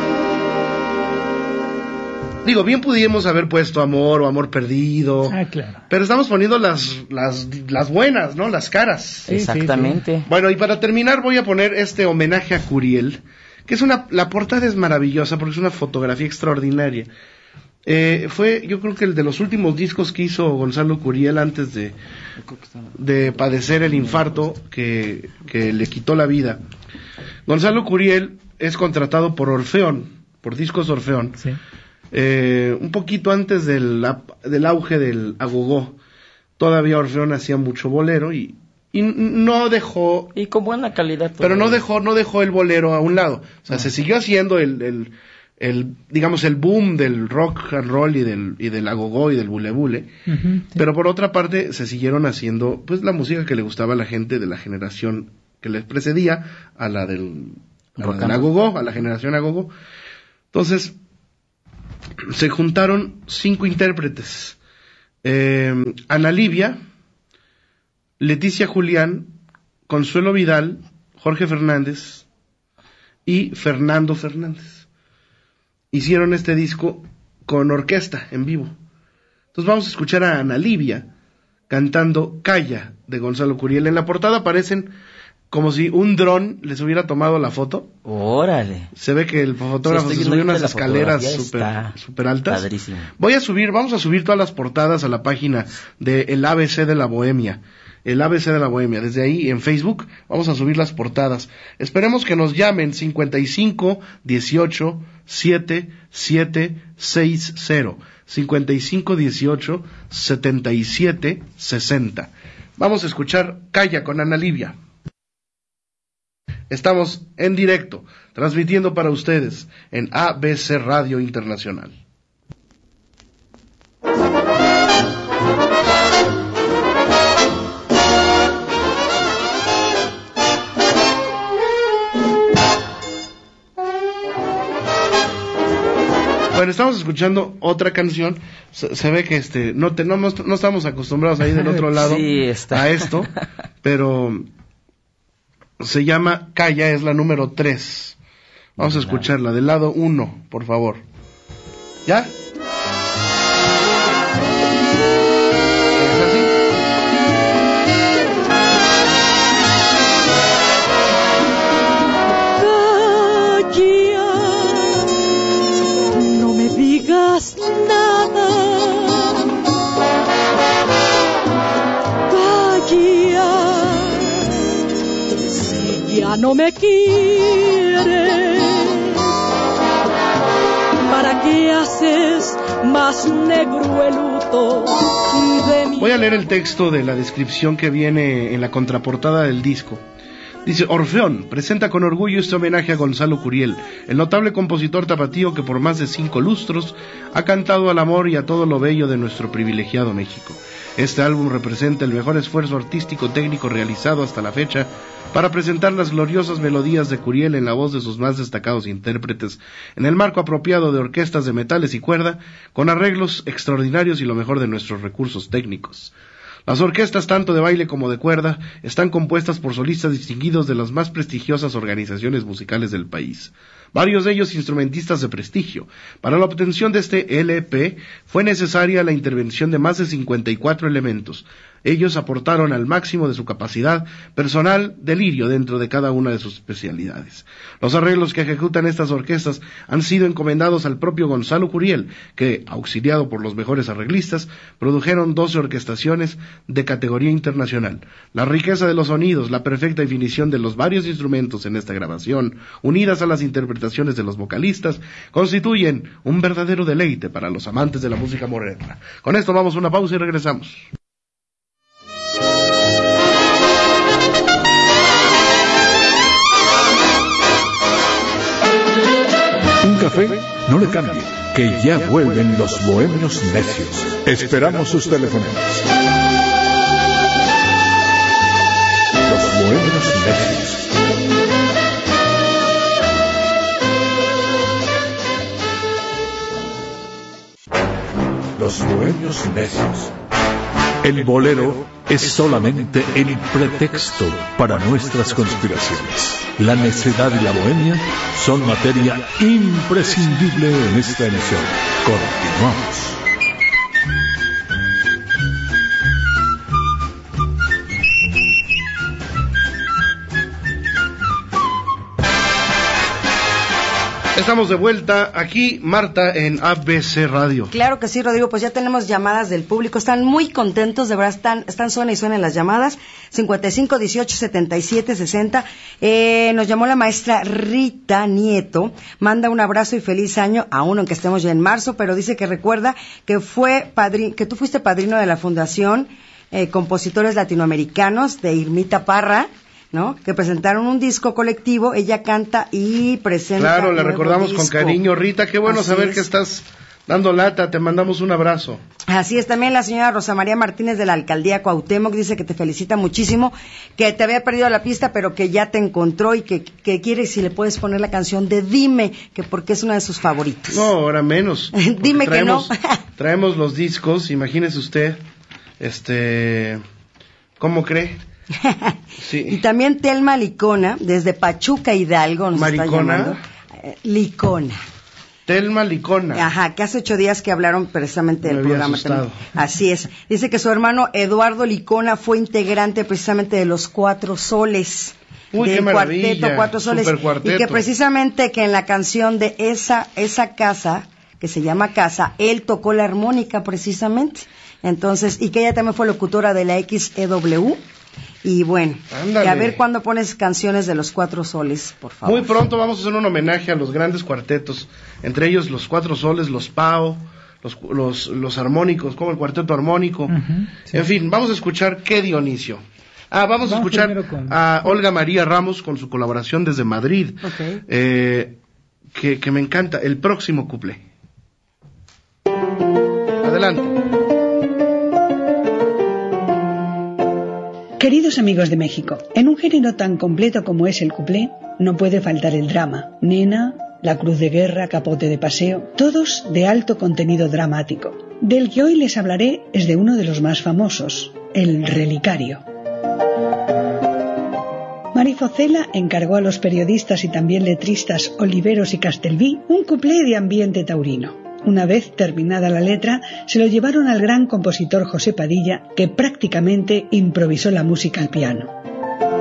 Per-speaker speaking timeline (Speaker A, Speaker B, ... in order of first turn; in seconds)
Speaker A: 2.4-5.4, 5.9-9.3, 10.3-17.1, 17.9-22.0, 23.0-26.6, 27.5-31.4, 32.1-36.0, 36.6-40.3, 41.4-50.1, 50.8-59.7, 60.5-61.0, 62.3-64.6, 65.2-66.8, 68.2-69.4, 69.9-72.2, 73.3-74.9, 75.9-78.7, 79.5-81.1, 81.7-84.9, 85.5-87.9, 89.0-114.8, 116.7-122.0, 136.5-143.3, 143.8-144.5, 145.8-148.2, 148.8-151.0, 152.1-152.3, 155.9-156.6, 185.9-190.0, 190.7-216.1, 216.7-260.9, 314.4-317.7, 343.6-348.8, 360.7-365.2, 365.8-366.8, 367.6-368.2, 369.2-369.6, 372.5-373.4, 375.5-376.5, 378.4-379.5, 385.5-387.9, 399.1-399.8, 402.2-410.4, 410.9-418.6, 419.1-421.0, 423.4-424.0
Speaker B: 5.3-5.8, 9.3-10.0, 50.3-50.8, 410.3-411.0, 413.6-414.6
Speaker C: 9.3-10.3, 40.4-41.9, 58.0-58.5, 88.1-88.9, 89.8-92.0, 92.5-93.1, 141.7-143.3, 148.8-149.3
Speaker D: 162.5-165.2, 166.1-169.4, 172.3-174.5, 175.3-179.3, 181.1-186.2
Speaker E: 269.8-275.9, 279.2-280.9, 288.6-290.1, 291.0-303.2
Speaker F: 317.7-345.0, 345.6-346.2, 349.1-360.9, 361.8-362.7, 368.6-369.0, 369.5-374.8, 376.3-397.8, 398.4-402.6, 417.5-417.8
Speaker G: 428.0-442.6, 445.1-458.7